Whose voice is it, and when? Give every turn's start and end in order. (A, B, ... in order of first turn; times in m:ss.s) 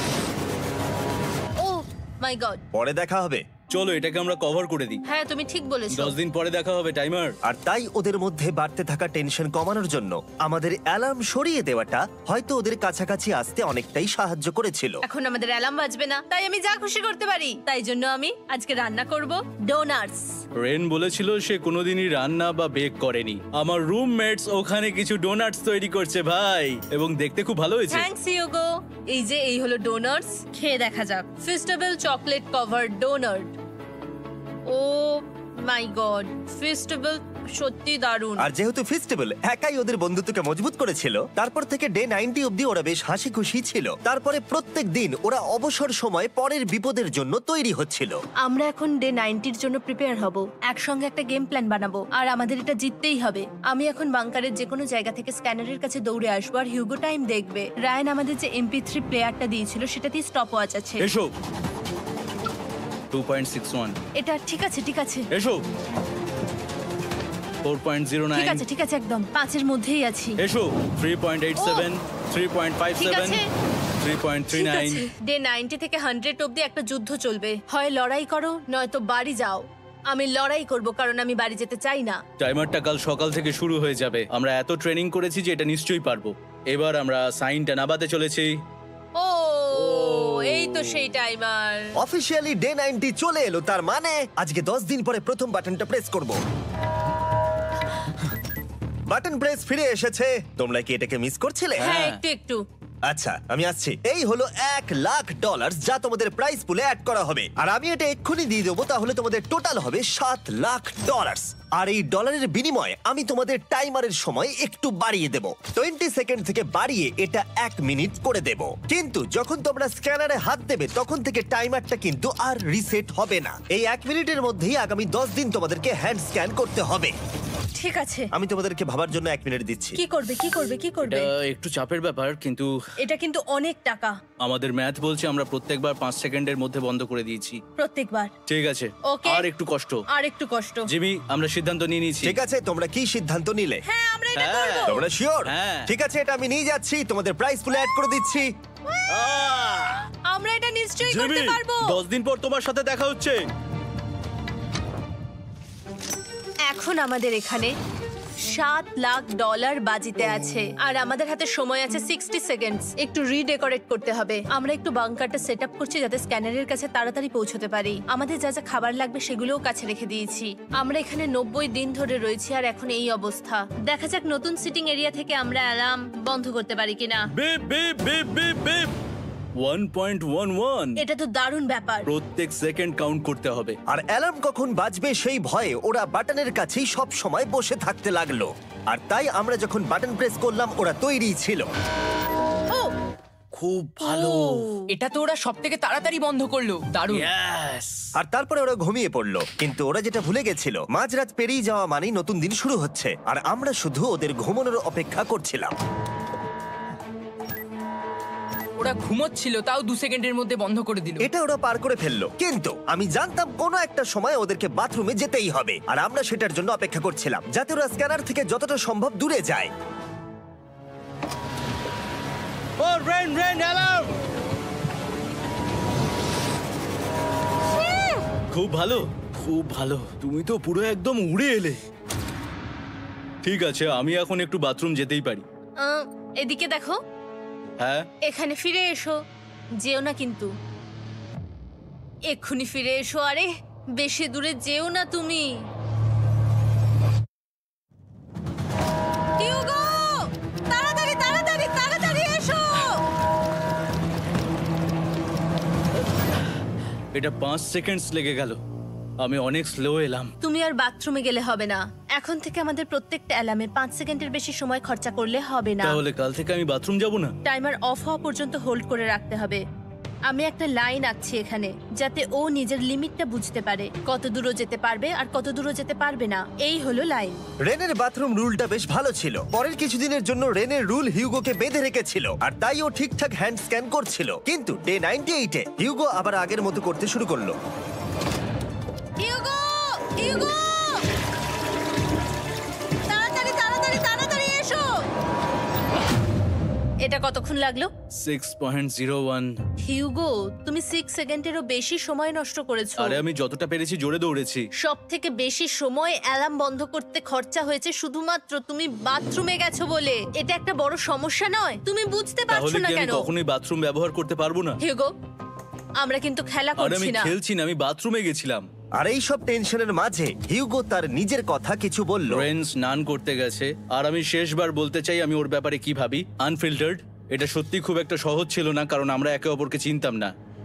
0:01.6-0:02.6 A
0:02.7-0:03.5 B
0:03.7-0:05.0 C
0:05.1-0:06.1 A
0:05.9-0:07.3 C
0:07.4-0:15.0 B
0:15.0-0:20.4 A
0:20.6-0:28.1 C
0:27.9-0:33.5 A
0:34.7-0:38.5 A
0:38.4-0:48.2 B
0:48.4-1:01.1 A
1:01.0-1:01.3 C
1:03.1-1:04.0 C
1:04.2-1:05.3 A
1:05.3-1:05.6 C
1:07.6-1:08.6 C
1:08.3-1:10.4 A
1:10.4-1:13.4 C
1:11.6-1:11.9 A
1:13.0-1:13.5 A
1:14.0-1:15.1 C
1:14.5-1:22.2 A
1:22.4-1:28.5 C
1:29.2-1:31.9 A
1:29.8-1:30.8 C
1:32.0-1:36.4 B
1:39.1-1:41.9 B
1:41.8-1:42.2 C
1:41.8-1:42.6 A
1:43.1-2:07.2 B
2:07.8-2:08.3 A
2:08.3-2:10.0 B
2:10.0-2:11.3 A
2:11.0-2:12.8 C
2:13.0-2:14.2 A
2:14.4-2:17.6 C
2:17.8-2:18.3 A
2:18.5-2:20.0 C
2:19.0-2:19.5 A
2:20.1-2:20.9 A
2:20.9-2:22.4 C
2:22.2-2:23.8 B
2:23.9-2:25.0 A
2:24.4-2:25.9 C
2:24.9-2:28.5 B
2:29.1-2:30.0 C
2:30.3-2:32.0 A
2:31.1-2:33.4 C
2:36.7-2:37.7 A
2:38.4-2:57.3 A
2:57.3-2:59.0 C
2:59.6-3:01.0 C
3:01.0-3:02.1 A
3:02.1-3:03.8 C
3:03.9-3:11.7 B
3:13.6-3:14.7 C
3:14.0-3:14.9 A
3:14.9-3:17.3 D
3:17.1-3:18.1 C
3:18.2-3:25.8 B
3:28.8-3:31.3 D
3:31.2-3:39.7 B
3:42.8-3:44.1 C
3:48.5-3:51.8 C
3:53.4-3:55.4 C
3:55.8-3:57.0 A
3:57.8-3:58.1 C
3:58.2-3:59.2 A
3:59.8-4:00.5 A
4:02.3-4:05.6 A
4:09.4-4:13.0 A
4:17.1-4:18.6 C
4:19.2-4:20.3 C
4:20.4-4:26.0 A
4:25.8-4:27.3 C
4:27.4-4:29.6 A
4:30.3-4:37.4 A
4:37.6-4:47.6 B
4:49.2-4:51.0 A
4:53.1-4:55.0 A
4:57.0-4:57.9 A
4:58.2-4:59.6 C
4:59.8-5:03.2 A
5:03.0-5:04.7 C
5:04.8-5:13.3 A
5:12.5-5:14.8 C
5:14.8-5:15.1 A
5:16.0-5:17.3 A
5:16.8-5:18.7 C
5:19.0-5:22.5 B
5:22.3-5:30.3 C